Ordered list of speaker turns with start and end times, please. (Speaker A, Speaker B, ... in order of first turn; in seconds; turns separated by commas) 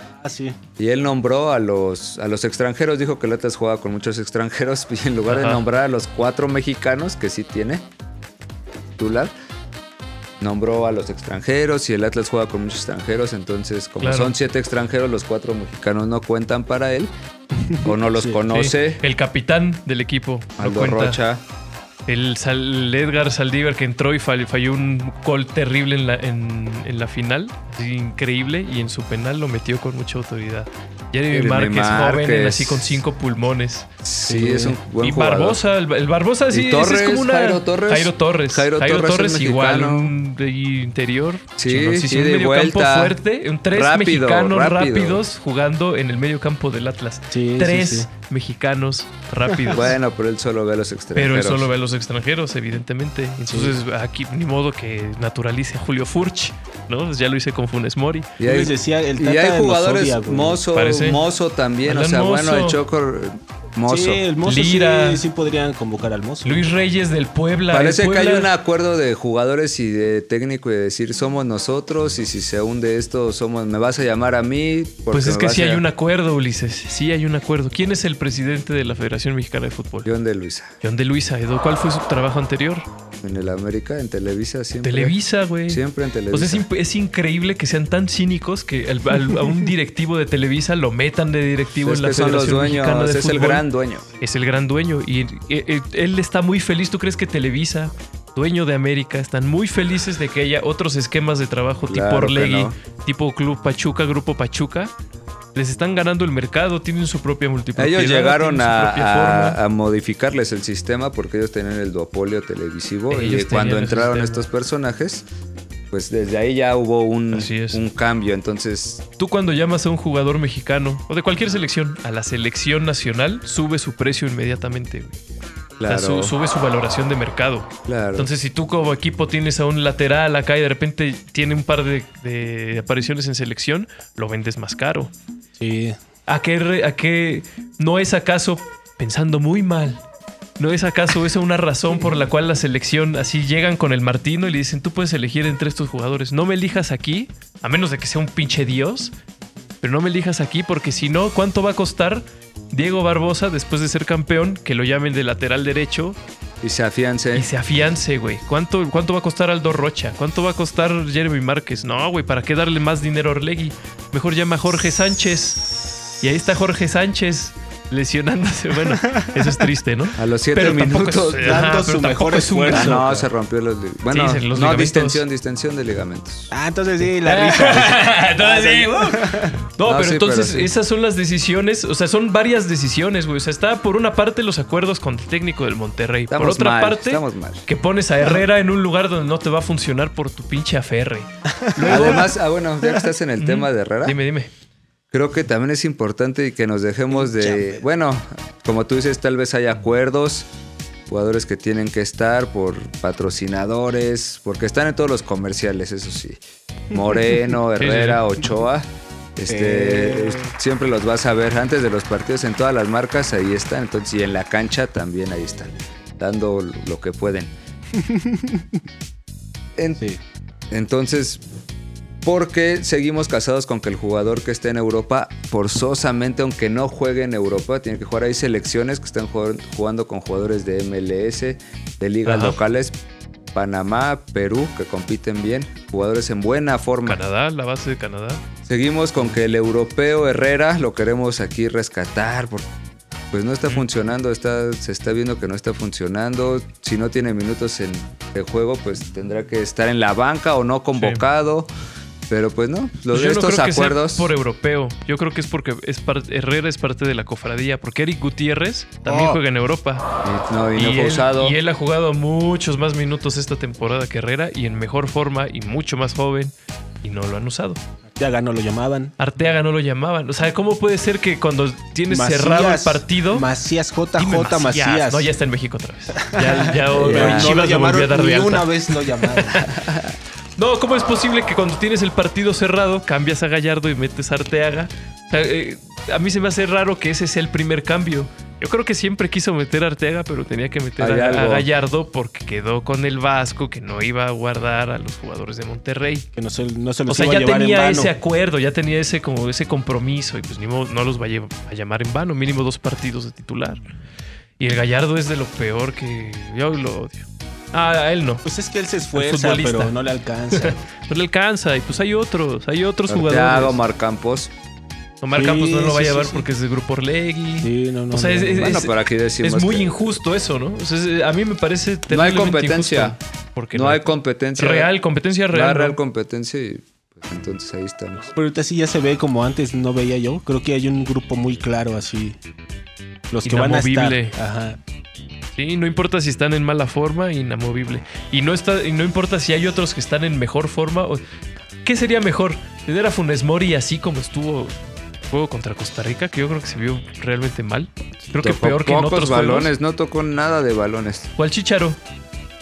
Speaker A: 0.2-0.6, Speaker B: 0.8-7.8, Speaker C: 5.3-5.6, Speaker B: 9.0-9.3, Speaker B: 10.4-17.1, Speaker C: 14.0-14.3, Speaker A: 17.6-18.4, Speaker B: 17.8-19.0, Speaker C: 18.5-21.2, Speaker B: 20.6-21.4, Speaker C: 22.1-33.9, Speaker B: 31.3-33.0, Speaker B: 34.0-35.6, Speaker A: 34.3-34.8, Speaker C: 35.0-49.9, Speaker B: 36.5-40.1, Speaker B: 41.6-43.2, Speaker B: 43.7-45.2, Speaker A: 47.3-48.1, Speaker B: 49.7-51.7, Speaker C: 51.1-58.3, Speaker A: 53.5-53.8, Speaker B: 58.4-64.2, Speaker A: 58.4-60.6, Speaker C: 60.7-61.2, Speaker C: 61.9-62.8, Speaker A: 63.9-66.6, Speaker C: 64.4-65.2, Speaker C: 66.4-68.5, Speaker B: 67.7-75.8, Speaker C: 75.1-80.1, Speaker B: 80.0-80.7, Speaker C: 80.8-82.9, Speaker B: 83.2-85.2, Speaker C: 84.8-93.6, Speaker B: 85.7-86.6, Speaker B: 91.8-94.0, Speaker C: 94.2-104.9, Speaker B: 101.9-102.7, Speaker C: 105.5-109.6, Speaker B: 107.8-115.2, Speaker C: 113.1-114.5, Speaker B: 115.9-119.0, Speaker C: 117.3-117.8, Speaker C: 119.2-125.1, Speaker B: 125.8-126.3, Speaker C: 125.8-135.1, Speaker B: 127.8-128.3, Speaker A: 135.6-136.0, Speaker C: 136.3-140.0, Speaker C: 140.6-149.1, Speaker C: 149.8-156.2, Speaker B: 156.6-157.5, Speaker C: 157.3-173.0, Speaker A: 169.1-169.5, Speaker B: 170.1-171.7, Speaker A: 171.4-173.2, Speaker B: 172.7-176.5, Speaker C: 174.1-175.2, Speaker A: 176.5-179.6, Speaker C: 177.2-192.3, Speaker B: 179.8-180.7, Speaker B: 186.3-187.6, Speaker A: 191.7-192.2, Speaker B: 191.8-194.2, Speaker C: 193.4-194.5, Speaker B: 195.1-200.5, Speaker A: 197.2-197.8, Speaker B: 201.1-217.5, Speaker C: 207.7-208.2, Speaker A: 209.5-210.5, Speaker A: 217.9-218.7, Speaker B: 219.8-220.0, Speaker B: 220.7-221.4, Speaker B: 222.2-233.0, Speaker C: 232.2-232.6, Speaker B: 233.5-237.2, Speaker C: 237.0-238.4, Speaker B: 238.7-242.7, Speaker B: 243.3-251.7, Speaker B: 252.3-254.3, Speaker C: 253.1-260.1, Speaker A: 259.0-259.4, Speaker B: 260.2-261.6, Speaker C: 260.7-267.8, Speaker A: 268.2-269.1, Speaker C: 269.2-273.5, Speaker A: 272.1-275.3, Speaker C: 274.2-279.8, Speaker A: 276.2-279.7, Speaker B: 276.9-277.6, Speaker B: 279.8-280.1, Speaker C: 280.6-296.2, Speaker B: 291.0-291.7, Speaker A: 296.4-298.1, Speaker C: 297.1-303.8, Speaker C: 304.6-308.4, Speaker A: 308.4-310.8, Speaker C: 309.1-309.9, Speaker C: 310.5-313.8, Speaker B: 313.1-314.5, Speaker C: 315.2-326.0, Speaker A: 315.4-316.4, Speaker A: 317.6-318.7, Speaker B: 318.6-320.1, Speaker B: 322.1-323.1, Speaker B: 323.7-324.9, Speaker B: 325.5-328.3, Speaker A: 328.3-332.4, Speaker A: 333.3-334.8, Speaker C: 333.4-334.4, Speaker C: 335.5-341.2, Speaker C: 341.8-344.8, Speaker C: 345.3-349.7, Speaker B: 348.4-351.3, Speaker C: 351.4-352.0